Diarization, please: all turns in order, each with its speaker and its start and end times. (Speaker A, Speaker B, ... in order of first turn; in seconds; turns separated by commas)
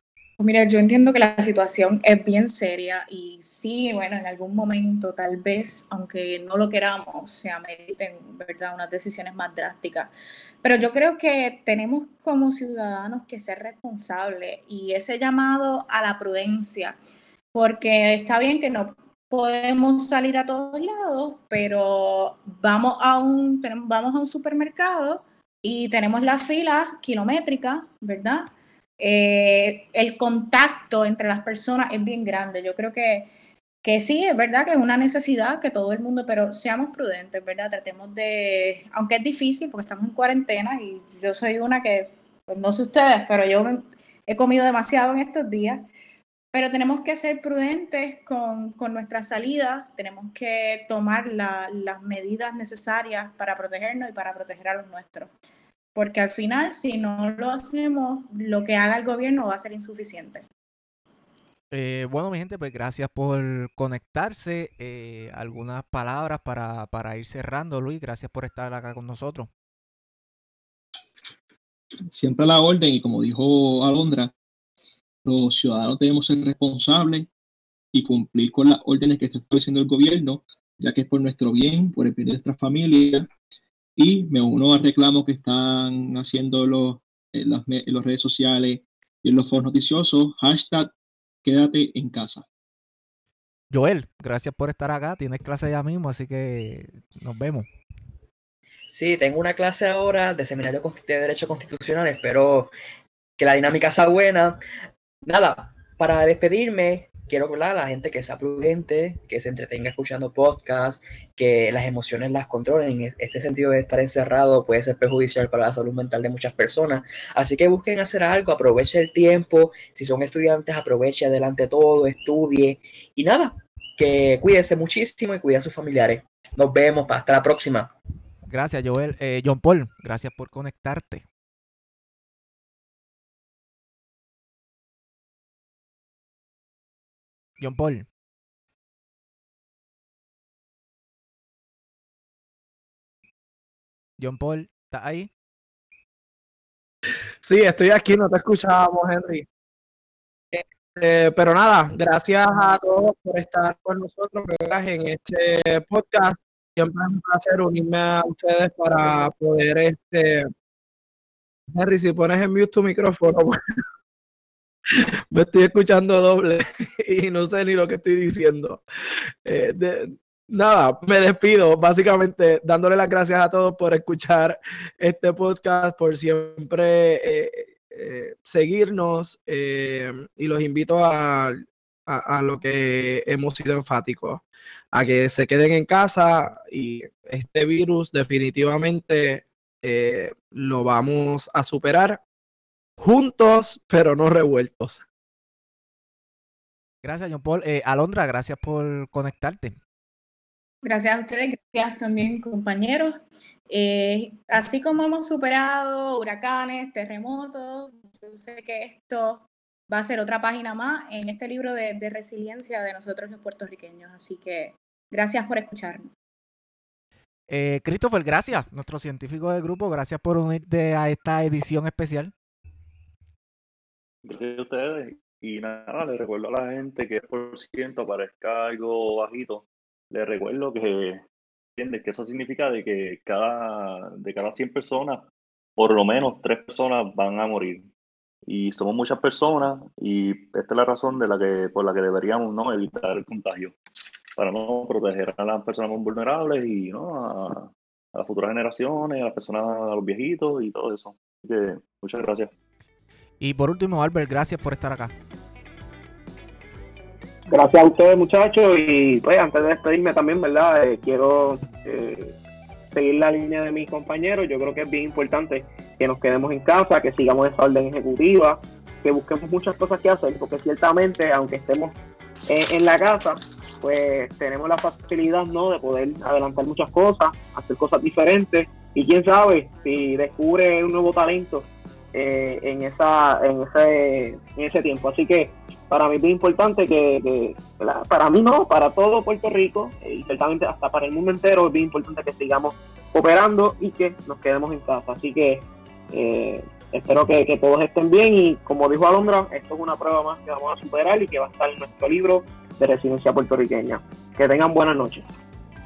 Speaker A: 0.4-10.1, Speaker A: 10.6-16.9, Speaker A: 17.5-33.3, Speaker A: 33.8-45.9, Speaker A: 46.5-55.3, Speaker A: 55.9-60.4, Speaker B: 61.7-69.5, Speaker C: 72.1-74.3, Speaker C: 75.2-77.3, Speaker C: 77.9-83.3, Speaker C: 84.0-90.9, Speaker C: 91.4-92.5, Speaker B: 93.7-97.7, Speaker D: 98.9-102.7, Speaker D: 103.4-104.6, Speaker D: 105.2-127.9, Speaker B: 128.5-131.2, Speaker B: 137.6-138.1, Speaker B: 144.2-145.3, Speaker E: 147.4-149.4, Speaker E: 150.5-160.5, Speaker E: 161.7-163.8, Speaker E: 164.9-168.8, Speaker E: 169.4-192.2, Speaker E: 193.0-195.0, Speaker B: 197.0-199.8, Speaker A: 200.8-216.1, Speaker B: 217.5-222.3, Speaker F: 224.2-231.2, Speaker F: 231.8-235.2, Speaker F: 235.8-237.9, Speaker F: 238.5-243.7, Speaker F: 244.3-252.5, Speaker B: 253.4-255.1, Speaker G: 257.5-262.4, Speaker G: 262.9-305.3